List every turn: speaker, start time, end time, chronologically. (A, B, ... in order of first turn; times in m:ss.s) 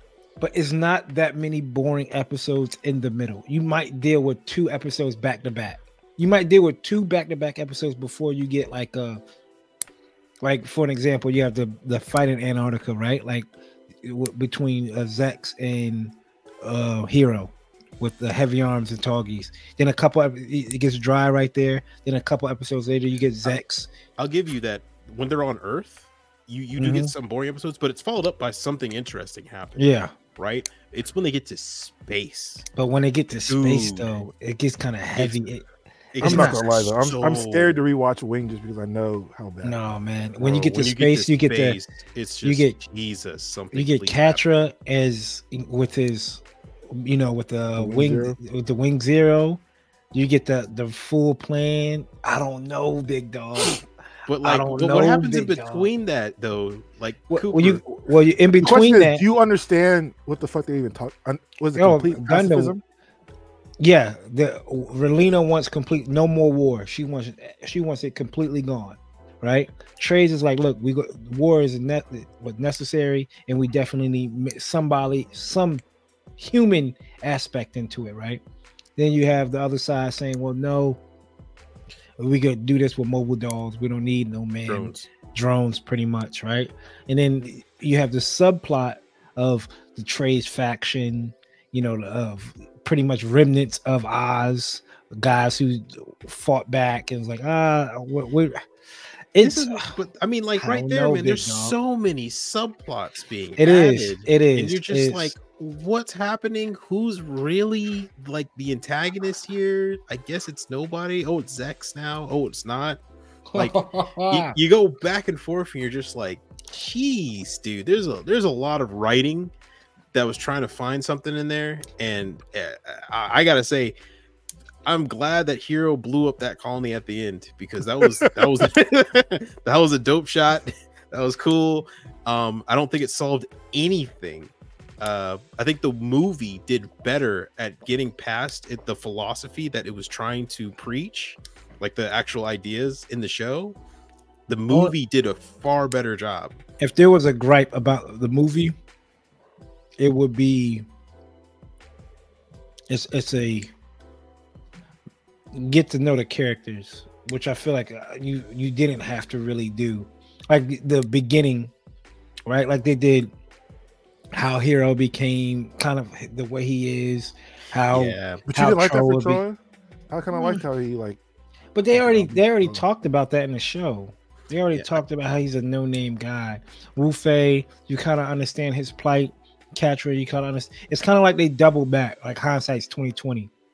0:00.4-0:09.2 A
0:10.4-0:13.5 A
0:14.0-0:23.9 A
0:24.2-0:29.8 B
0:26.8-0:27.1 A
0:29.8-0:30.1 A
0:30.3-0:32.6 B
0:32.8-0:35.6 A
0:33.5-0:34.2 B
0:35.2-0:35.4 B
0:36.1-0:37.8 B
0:36.2-0:36.6 A
0:36.2-0:39.8 C
0:39.6-0:41.8 A
0:40.4-0:44.4 B
0:42.4-0:42.8 A
0:43.7-0:49.6 A
0:47.8-0:48.4 C
0:50.1-0:53.8 A
0:54.3-0:57.8 B
0:54.4-0:55.9 A
0:57.3-0:59.2 A
0:58.6-1:02.8 C
1:01.8-1:02.7 A
1:03.8-1:15.8 A
1:16.4-1:18.4 A
1:19.0-1:21.0 A
1:22.2-1:38.6 A
1:24.7-1:25.0 B
1:39.3-1:39.9 A
1:39.4-1:53.0 B
1:40.6-1:41.7 A
1:43.6-1:45.3 A
1:53.5-1:54.6 A
1:53.5-1:59.5 B
2:00.1-2:03.9 B
2:04.8-2:23.8 B
2:24.5-2:26.6 B
2:26.8-2:28.8 A
2:30.0-2:30.8 A
2:32.9-2:33.7 A
2:35.5-2:41.7 A
2:42.5-2:43.3 A
2:44.3-2:49.4 A
2:47.9-2:48.4 B
2:48.4-2:49.6 C
2:50.1-2:51.2 C
2:50.3-2:50.6 A
2:51.7-3:03.5 A
2:51.9-2:52.8 C